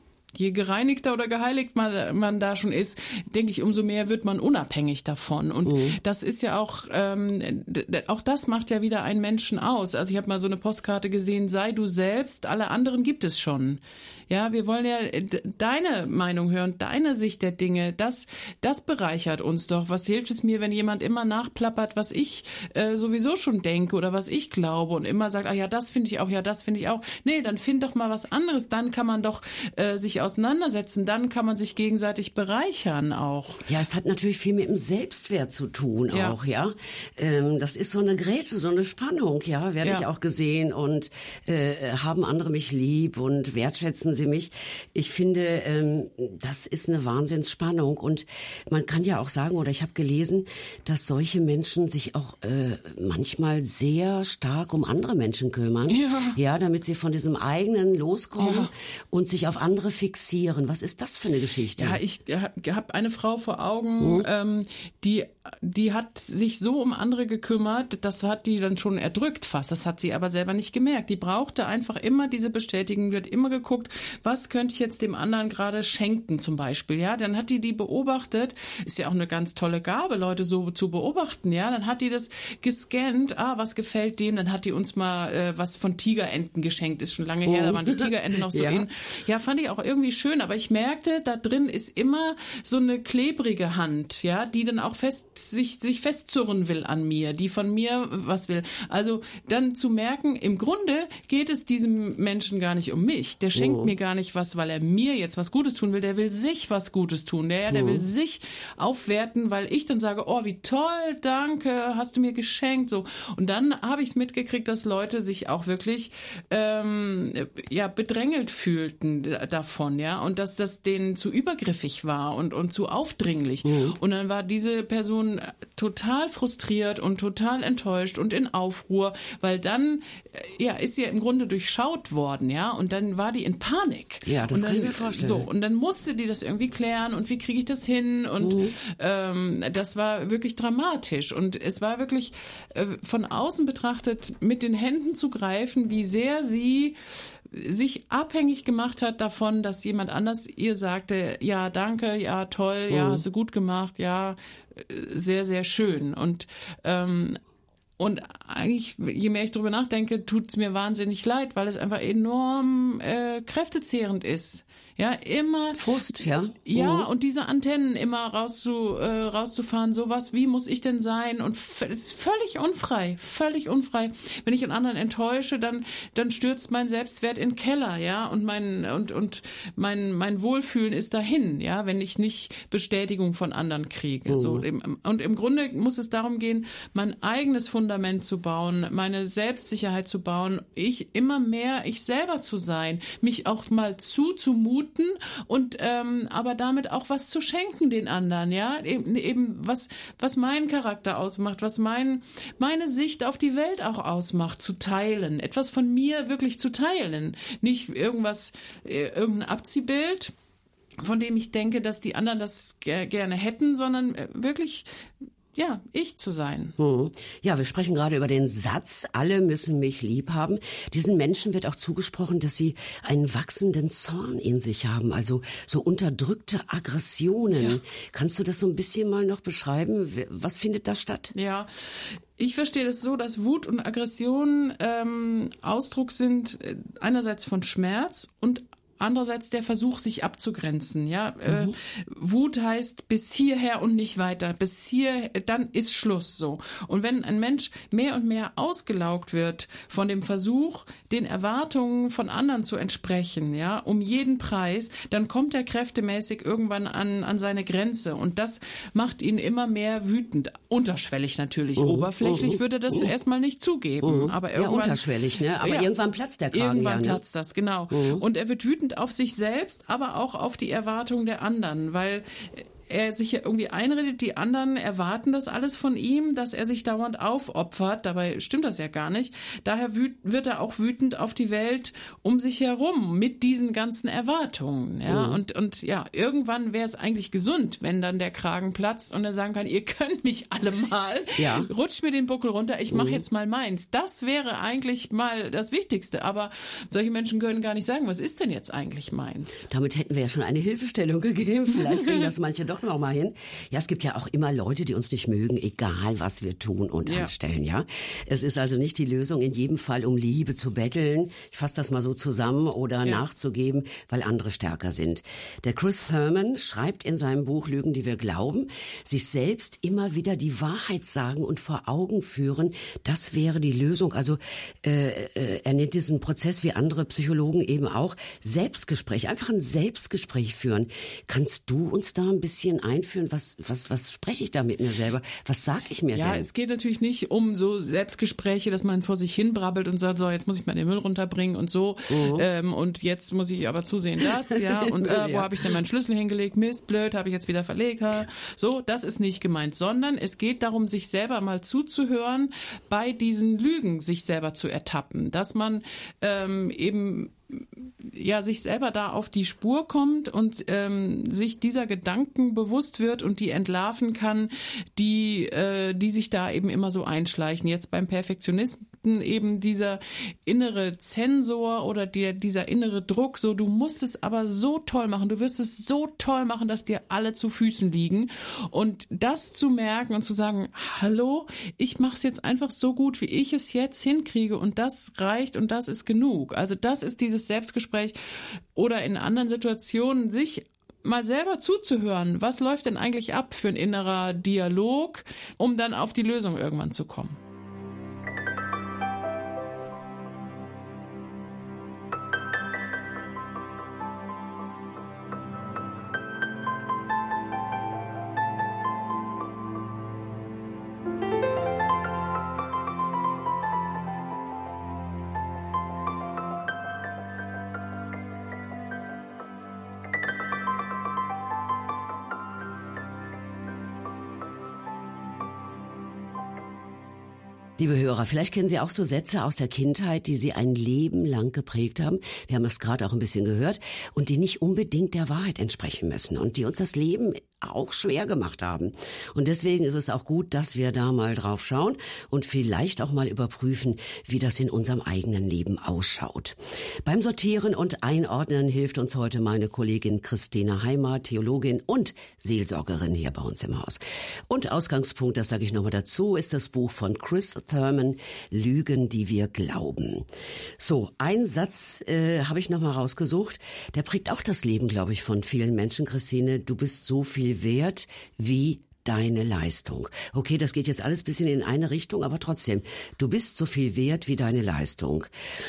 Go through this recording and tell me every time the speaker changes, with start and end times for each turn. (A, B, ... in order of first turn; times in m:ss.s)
0:00.3-0:33.6 A
0:05.6-0:06.0 B
0:33.7-1:02.0 B
0:36.1-0:36.4 A
0:55.9-0:56.4 A
0:58.4-0:58.7 A
1:01.8-2:37.4 A
1:04.0-1:04.3 B
1:27.4-1:28.9 B
1:43.6-1:43.9 B
1:47.7-1:48.0 B
2:03.6-2:04.0 B
2:14.3-2:15.4 B
2:18.4-2:18.8 B
2:32.9-2:33.2 B
2:38.0-2:46.1 A
2:45.8-2:47.1 B
2:46.6-3:30.3 A
3:04.3-3:04.6 B
3:31.0-3:34.9 A
3:35.5-3:36.8 A
3:36.8-3:51.3 B
3:51.3-4:25.0 A
4:01.5-4:01.7 B
4:21.8-4:22.6 B
4:24.0-4:27.2 B
4:25.6-4:25.9 A
4:26.5-4:59.7 A
4:27.9-4:28.2 B
4:45.0-4:45.4 B
4:51.4-4:51.7 B
4:52.9-4:53.2 B
4:59.7-5:36.5 B
5:01.9-5:02.2 A
5:07.0-5:07.3 A
5:36.1-6:28.2 A
5:42.1-5:42.4 B
5:44.4-5:45.5 B
6:28.7-6:37.4 A
7:07.8-7:40.3 B
7:40.8-7:55.3 B